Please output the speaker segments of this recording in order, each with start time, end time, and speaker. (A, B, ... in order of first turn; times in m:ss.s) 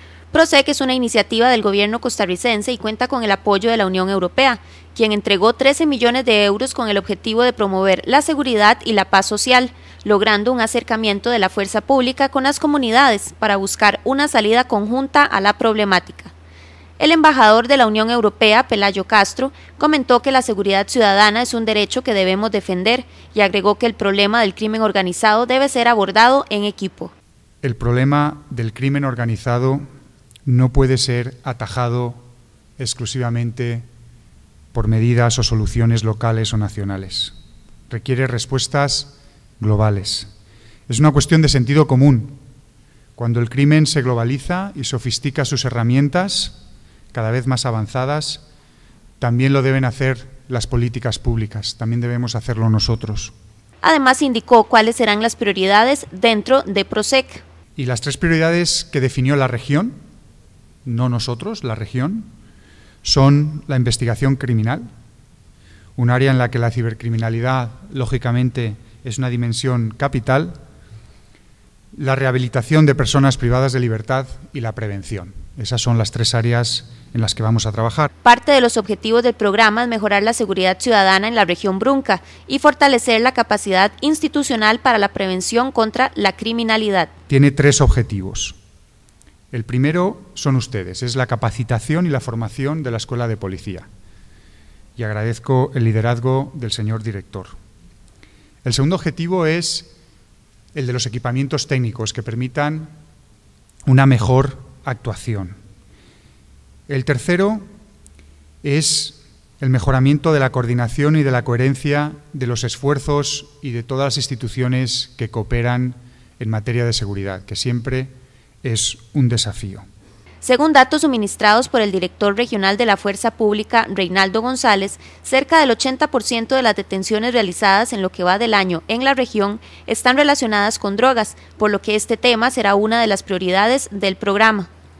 0:00.3-0:16.3 A
0:17.0-0:27.1 A
0:27.6-0:29.8 B
0:30.5-0:32.2 B
0:32.8-0:33.9 B
0:34.7-0:37.3 B
0:37.9-0:40.3 B
0:40.9-0:42.4 B
0:43.2-0:46.6 B
0:47.1-0:48.4 B
0:49.2-0:53.3 B
0:53.8-0:57.4 A
0:57.8-1:00.0 B
1:00.8-1:02.3 B
1:03.0-1:04.9 B
1:06.0-1:10.6 B
1:12.0-1:18.1 B
1:18.2-1:27.1 A
1:27.3-1:28.6 B
1:29.5-1:33.9 B
1:35.0-1:37.6 B
1:38.6-1:39.9 B
1:40.7-1:42.9 B
1:43.9-1:45.6 B
1:46.9-1:47.7 B
1:48.6-1:58.1 B
1:58.6-1:59.8 B
2:00.4-2:14.7 A